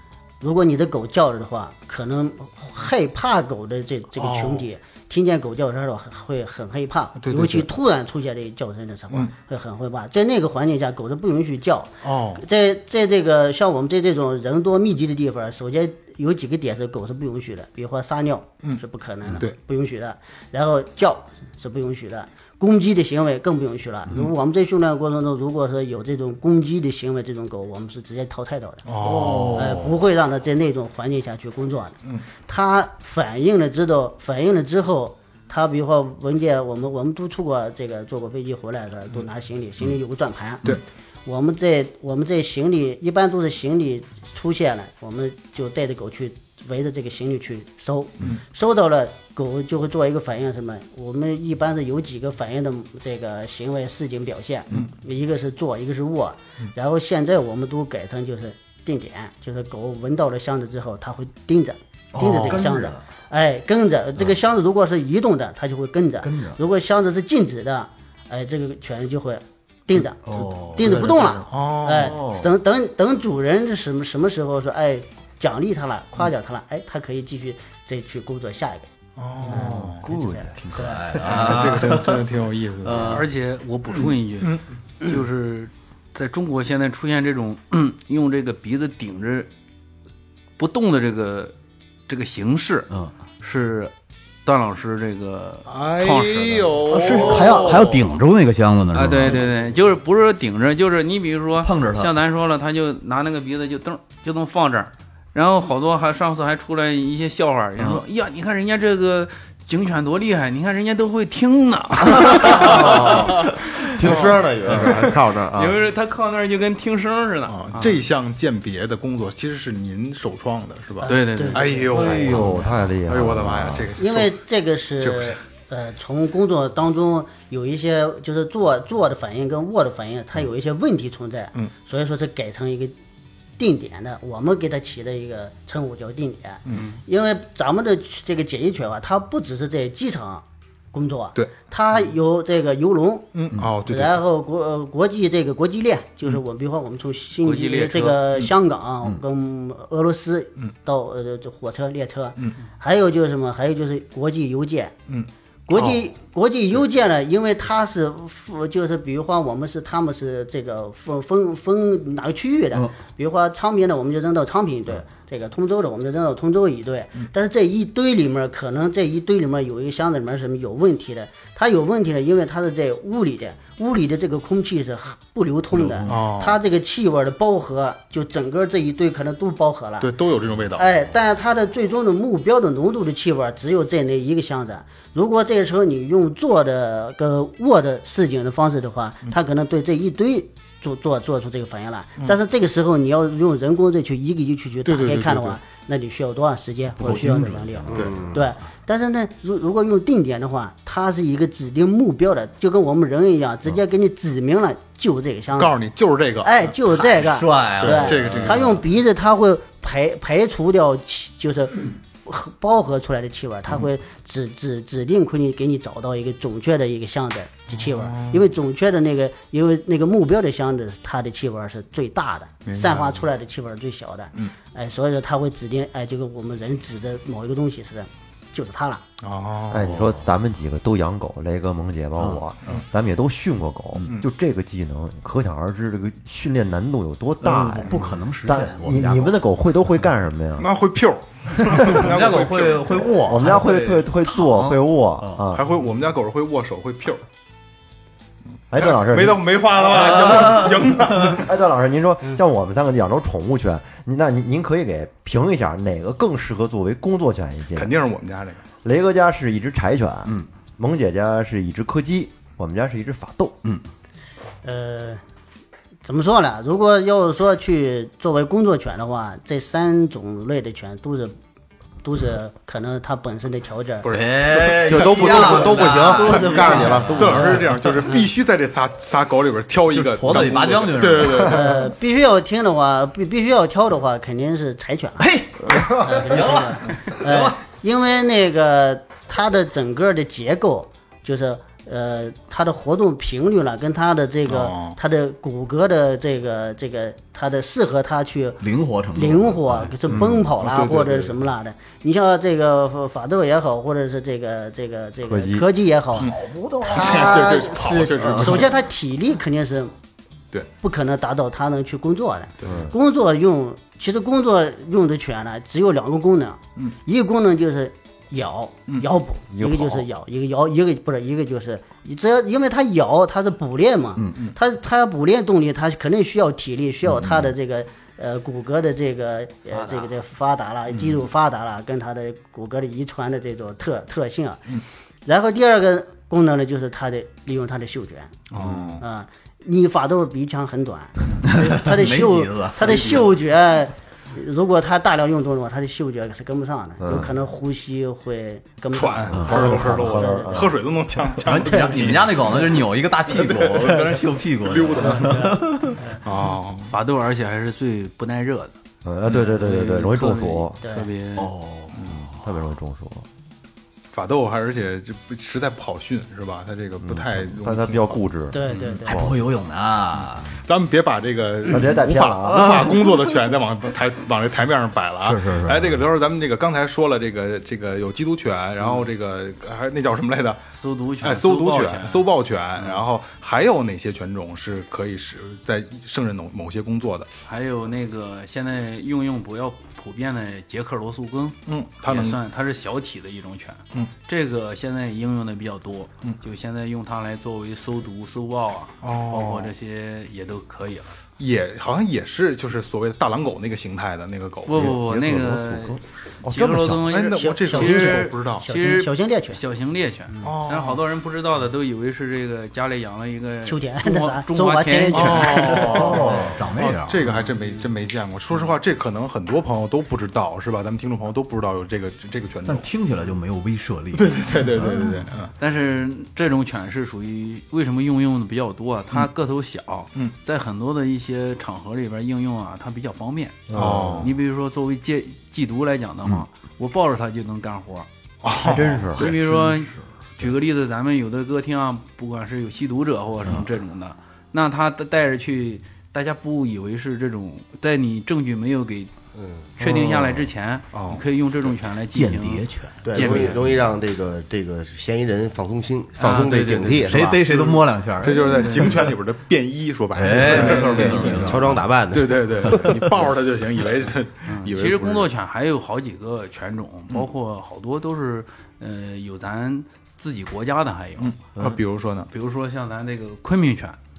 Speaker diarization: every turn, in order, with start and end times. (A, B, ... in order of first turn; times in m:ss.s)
0:00.4-0:28.8 A
0:04.2-0:04.6 B
0:07.2-0:07.7 B
0:12.0-0:12.4 B
0:18.6-0:19.5 B
0:28.8-0:29.9 B
0:29.0-0:29.9 C
0:29.5-1:18.9 A
1:02.1-1:03.1 C
1:06.2-1:06.6 C
1:10.2-1:11.3 C
1:10.8-1:12.2 B
1:11.9-1:12.5 D
1:19.2-1:20.0 B
1:19.4-1:21.4 D
1:19.5-1:20.0 C
1:20.1-1:21.0 A
1:20.6-1:22.3 C
1:21.2-1:23.2 B
1:22.8-1:23.3 C
1:22.9-1:29.5 E
1:30.6-1:31.5 E
1:32.1-1:33.9 E
1:34.4-1:37.7 E
1:35.7-1:38.1 B
1:36.8-1:39.4 C
1:38.9-1:53.5 E
1:41.6-1:42.1 C
1:47.8-1:48.0 C
1:52.2-1:52.5 C
1:52.5-1:55.8 F
1:54.0-1:54.3 B
1:54.1-1:58.0 E
1:57.5-2:04.3 B
2:01.0-2:02.3 A
2:01.0-2:01.8 E
2:01.9-2:03.9 D
2:04.0-2:12.9 A
2:05.0-2:05.4 B
2:13.6-2:23.3 A
2:16.6-2:17.0 B
2:23.3-2:24.2 B
2:23.8-2:34.9 A
2:27.4-2:28.2 E
2:35.7-3:00.1 A
2:55.9-2:56.6 B
3:00.0-3:00.9 B
3:00.8-3:25.7 A
3:14.8-3:15.6 B
3:17.0-3:18.4 C
3:17.9-3:18.2 B
3:17.9-3:18.3 F
3:25.6-3:26.7 B
3:26.4-3:49.0 A
3:26.9-3:28.8 C
3:27.8-3:28.8 B
3:37.7-3:38.5 B
3:42.6-3:43.2 B
3:49.2-3:50.0 B
3:49.7-4:00.7 D
3:49.9-3:50.3 C
3:52.2-3:52.8 C
3:57.4-3:59.4 C
4:00.6-4:03.1 B
4:01.6-4:02.0 D
4:01.8-4:05.4 C
4:03.2-4:05.6 D
4:05.5-4:07.2 B
4:08.7-4:17.9 D
4:08.7-4:11.5 B
4:17.7-4:18.6 B
4:18.8-4:23.6 D
4:24.6-4:25.2 A
4:26.0-4:31.4 A
4:32.0-4:34.1 A
4:34.0-4:41.9 B
4:34.1-4:37.9 C
4:34.9-4:37.4 F
4:35.4-4:38.2 A
4:39.9-4:41.7 C
4:41.4-4:58.6 A
4:45.2-4:47.6 C
4:54.5-4:55.0 B
4:58.6-5:00.4 C
4:59.1-5:06.3 A
5:00.6-5:01.4 B
5:05.2-5:05.7 D
5:06.2-5:08.7 C
5:06.2-5:08.7 B
5:06.8-5:09.9 A
5:10.8-5:34.6 A
5:12.6-5:12.9 B
5:19.5-5:20.0 D
5:24.2-5:24.4 C
5:27.2-5:27.5 C
5:35.2-5:38.4 A
5:38.5-5:39.0 B
5:39.0-5:50.6 A
5:41.4-5:43.3 C
5:47.0-5:47.3 D
5:48.9-5:55.5 B
5:49.3-5:50.7 D
5:51.4-5:56.0 C
5:55.0-5:56.2 A
5:56.2-5:56.9 B
5:56.9-5:58.7 E
5:59.0-6:00.8 D
5:59.5-6:01.5 E
6:00.8-6:01.1 A
6:01.4-6:02.2 C
6:02.0-6:03.3 D
6:04.1-6:08.2 B
6:07.0-6:09.4 D
6:08.5-6:09.2 A
6:08.7-6:10.5 C
6:10.6-6:20.6 B
6:11.7-6:12.9 D
6:15.2-6:16.0 C
6:20.7-6:23.0 E
6:21.2-6:27.3 B
6:27.4-6:41.1 E
6:31.7-6:32.4 B
6:39.0-6:39.7 B
6:41.4-6:45.0 B
6:44.6-6:55.9 E
6:44.7-6:47.1 D
6:47.0-6:48.6 B
6:47.4-6:49.6 A
6:50.3-6:50.5 A
6:50.4-6:51.0 B
6:53.6-6:56.4 A
6:55.1-7:02.9 B
6:55.8-6:57.4 C
7:02.6-7:05.2 C
7:04.1-7:05.5 B
7:05.6-7:18.1 E
7:13.7-7:14.3 D
7:13.7-7:14.3 B
7:18.4-7:19.0 B
7:18.6-7:19.4 D
7:19.2-7:20.5 C
7:19.2-7:29.1 E
7:29.3-7:29.7 F
7:29.8-7:33.7 E
7:29.8-7:30.4 C
7:30.9-7:31.2 B
7:32.1-7:33.6 C
7:33.0-7:37.5 F
7:36.2-7:37.3 E
7:37.1-7:39.1 C
7:37.5-7:45.3 B
7:38.5-7:38.9 E
7:40.1-7:41.8 C
7:40.4-7:43.0 F
7:42.8-7:43.1 C
7:44.4-7:51.4 E
7:51.2-7:52.3 B
7:52.3-7:54.0 E